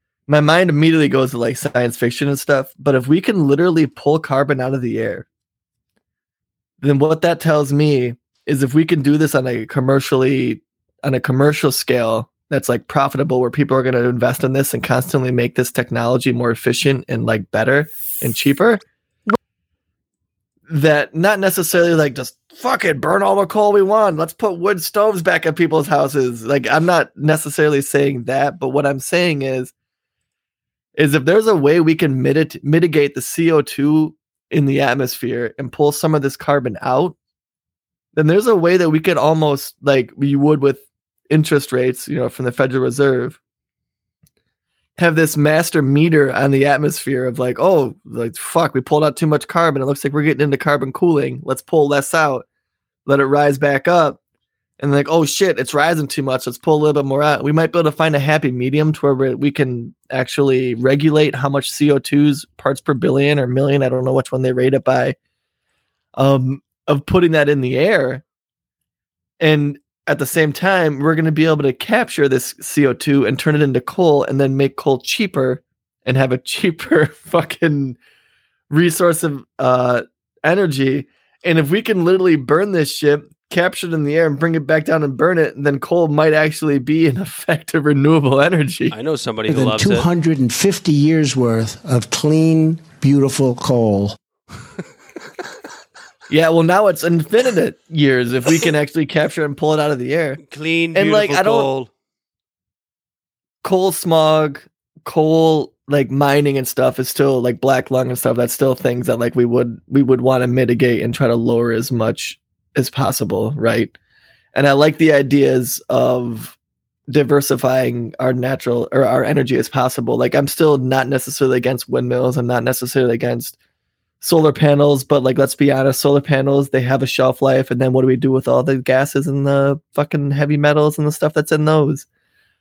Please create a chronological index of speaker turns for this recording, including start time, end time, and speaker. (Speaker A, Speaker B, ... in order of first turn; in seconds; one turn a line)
Speaker A: 0.3-5.3
Speaker A: 6.8-18.8
Speaker A: 20.7-29.7
Speaker A: 30.9-37.1
Speaker A: 38.1-43.4
Speaker A: 45.0-52.4
Speaker A: 53.0-54.2
Speaker A: 54.8-65.2
Speaker A: 66.2-68.2
Speaker A: 69.4-78.0
Speaker A: 78.7-88.9
Speaker B: 88.9-90.1
Speaker C: 89.5-94.2
Speaker A: 96.3-100.4
Speaker B: 100.4-101.9
Speaker A: 100.9-101.7
Speaker A: 103.6-113.9
Speaker A: 114.5-116.5
Speaker A: 117.1-123.5
Speaker A: 124.2-132.1